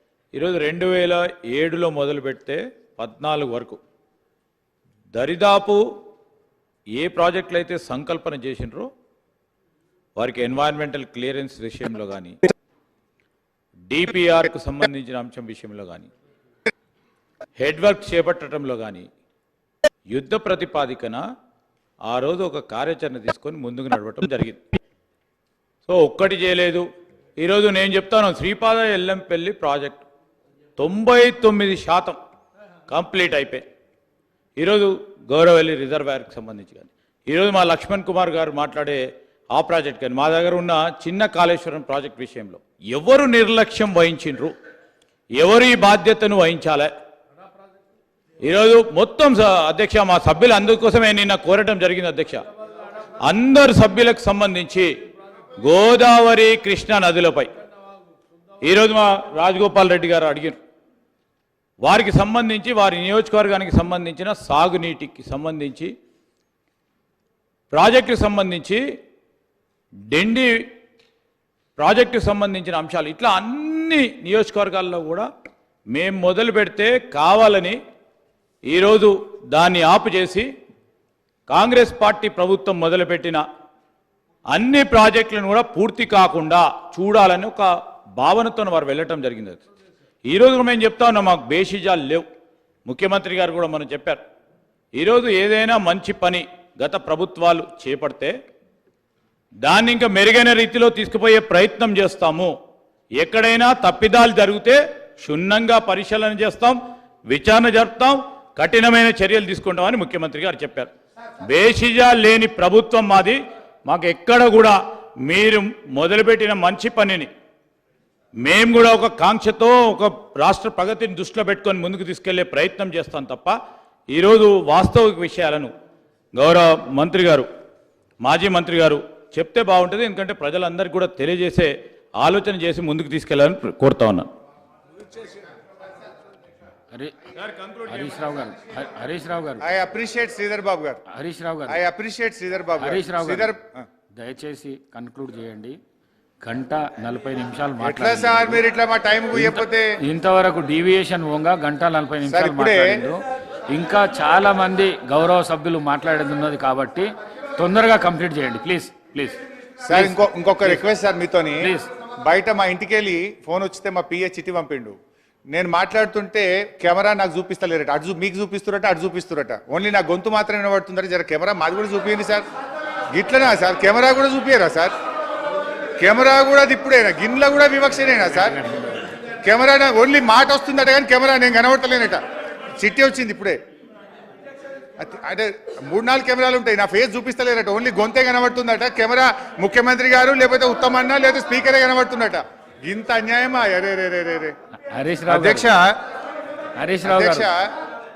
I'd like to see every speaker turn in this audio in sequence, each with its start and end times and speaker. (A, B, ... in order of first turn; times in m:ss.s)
0:00.3-0:03.8 A
0:05.1-0:05.8 A
0:06.9-0:08.9 A
0:10.2-0:12.4 A
0:13.9-0:16.1 A
0:17.6-0:19.1 A
0:20.1-0:21.2 A
0:22.1-0:24.6 A
0:25.8-0:26.8 A
0:27.4-0:30.0 A
0:30.8-0:32.2 A
0:32.9-0:33.6 A
0:34.6-0:44.5 A
0:45.3-0:46.9 A
0:48.4-0:52.4 A
0:53.2-0:54.9 A
0:55.6-0:57.5 A
0:58.6-1:00.6 A
1:01.8-1:05.9 A
1:07.7-1:08.8 A
1:10.1-1:10.7 A
1:11.8-1:15.3 A
1:15.9-1:17.8 A
1:18.7-1:20.5 A
1:21.5-1:23.4 A
1:24.5-1:29.6 A
1:30.2-1:32.2 A
1:32.8-1:34.2 A
1:34.9-1:38.3 A
1:39.6-1:42.5 A
1:43.2-1:50.9 A
1:51.4-1:57.3 A
1:58.4-2:03.6 A
2:04.1-2:05.7 A
2:06.3-2:07.5 A
2:08.2-2:14.3 A
2:17.8-2:19.6 B
2:19.6-2:21.0 C
2:21.1-2:21.8 B
2:21.7-2:23.8 C
2:22.8-2:23.5 B
2:24.2-2:25.8 B
2:26.4-2:28.6 B
2:27.8-2:30.0 C
2:29.3-2:40.1 B
2:32.2-2:33.0 C
2:39.8-2:41.7 C
2:41.6-2:41.9 B
2:42.2-2:44.9 C
2:45.5-2:52.4 C
2:53.1-2:54.9 C
2:56.0-2:58.6 C
2:58.4-2:59.0 B
2:59.4-3:02.2 C
3:02.7-3:03.6 C
3:05.0-3:14.6 C
3:14.9-3:15.7 B
3:15.3-3:16.0 C
3:16.8-3:17.5 B
3:17.0-3:17.7 C